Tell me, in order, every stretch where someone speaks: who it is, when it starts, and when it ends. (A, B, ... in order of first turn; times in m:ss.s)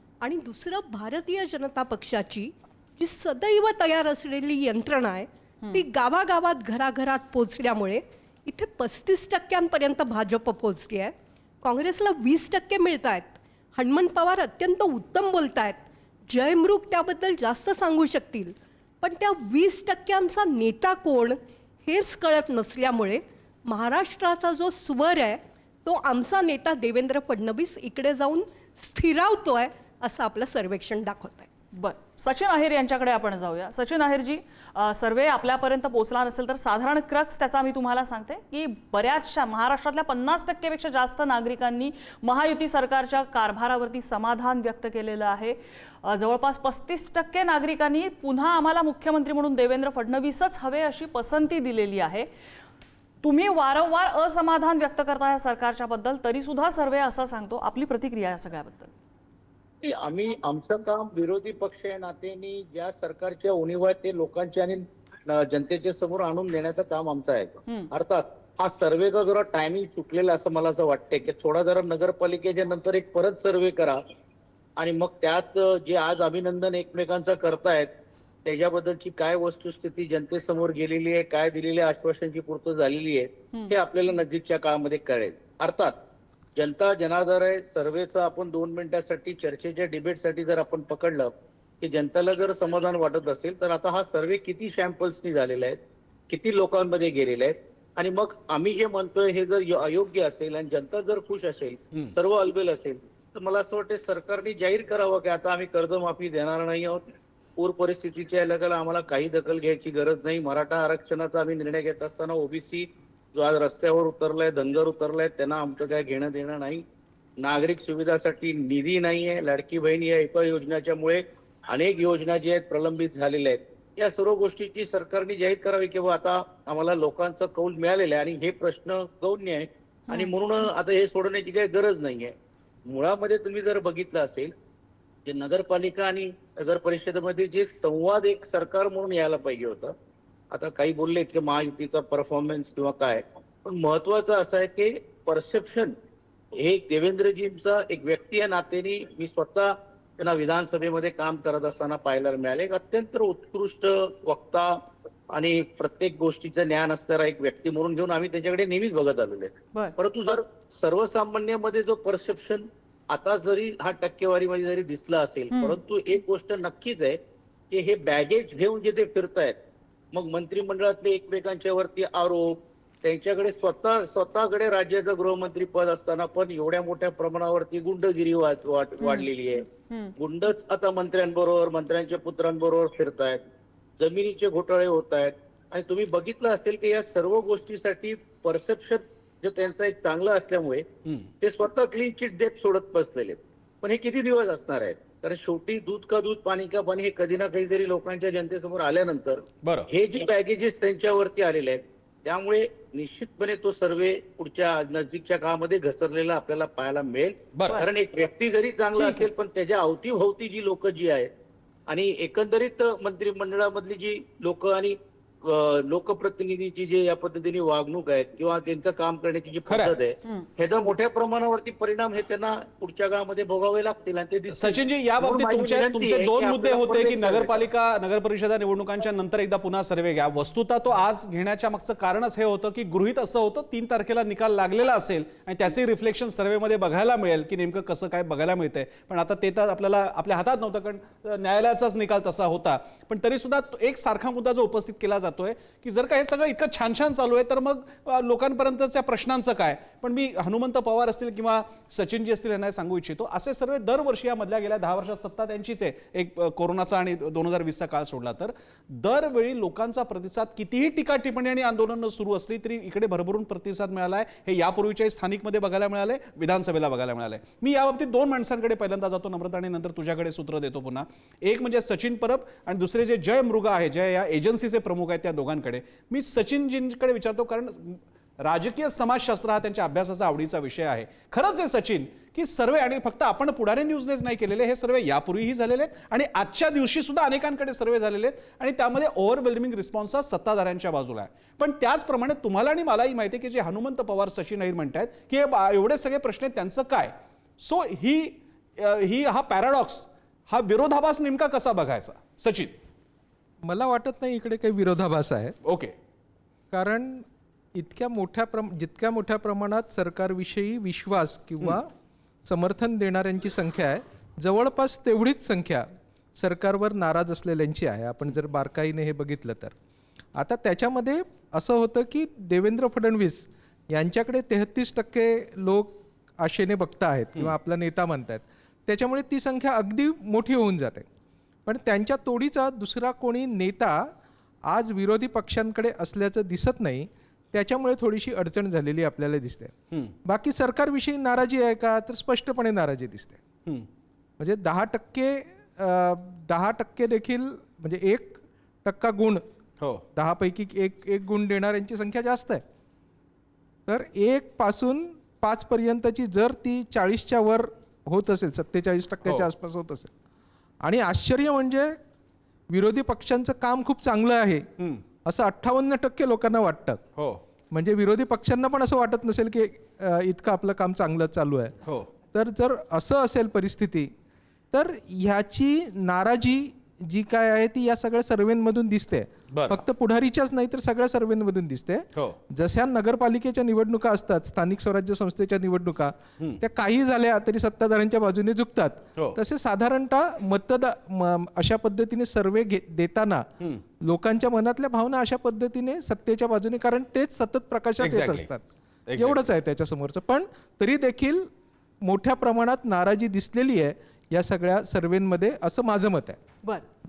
0:00.2-0:31.5 A
0:31.7-0:52.3 B
0:53.2-0:58.9 B
0:59.8-1:14.0 C
1:14.8-1:17.9 C
1:18.4-1:26.0 C
1:26.6-1:47.0 C
1:47.6-1:56.8 C
1:57.4-2:12.3 C
2:12.9-2:14.5 C
2:15.3-2:19.9 C
2:20.5-2:25.9 C
2:26.5-2:47.2 C
2:45.5-2:45.8 B
2:47.7-2:49.6 C
2:50.1-3:03.4 C
2:59.0-2:59.3 B
2:59.9-3:00.2 B
3:04.0-3:10.9 C
3:11.0-3:11.3 D
3:11.4-3:31.3 C
3:19.6-3:19.9 D
3:27.5-3:27.8 D
3:28.9-3:29.3 B
3:31.9-3:47.7 C
3:39.7-3:40.0 D
3:44.5-5:02.8 D
5:03.6-5:05.6 E
5:05.6-5:05.9 D
5:06.7-5:11.9 E
5:12.4-5:19.8 E
5:20.3-5:31.1 E
5:31.7-5:34.1 E
5:34.6-5:43.4 E
5:44.4-5:49.5 E
5:49.8-5:50.0 D
5:50.1-5:52.6 E
5:53.9-6:00.1 E
5:59.2-5:59.5 D
6:00.8-6:02.0 E
6:02.7-6:04.7 E
6:04.8-6:05.0 D
6:05.2-6:07.0 E
6:07.2-6:07.4 D
6:07.7-6:11.8 E
6:11.8-6:12.1 D
6:12.3-6:14.1 E
6:14.7-6:33.5 E
6:19.5-6:19.8 D
6:34.0-6:38.7 E
6:38.0-6:38.5 D
6:39.1-6:39.5 D
6:39.2-6:41.5 E
6:42.0-6:46.4 E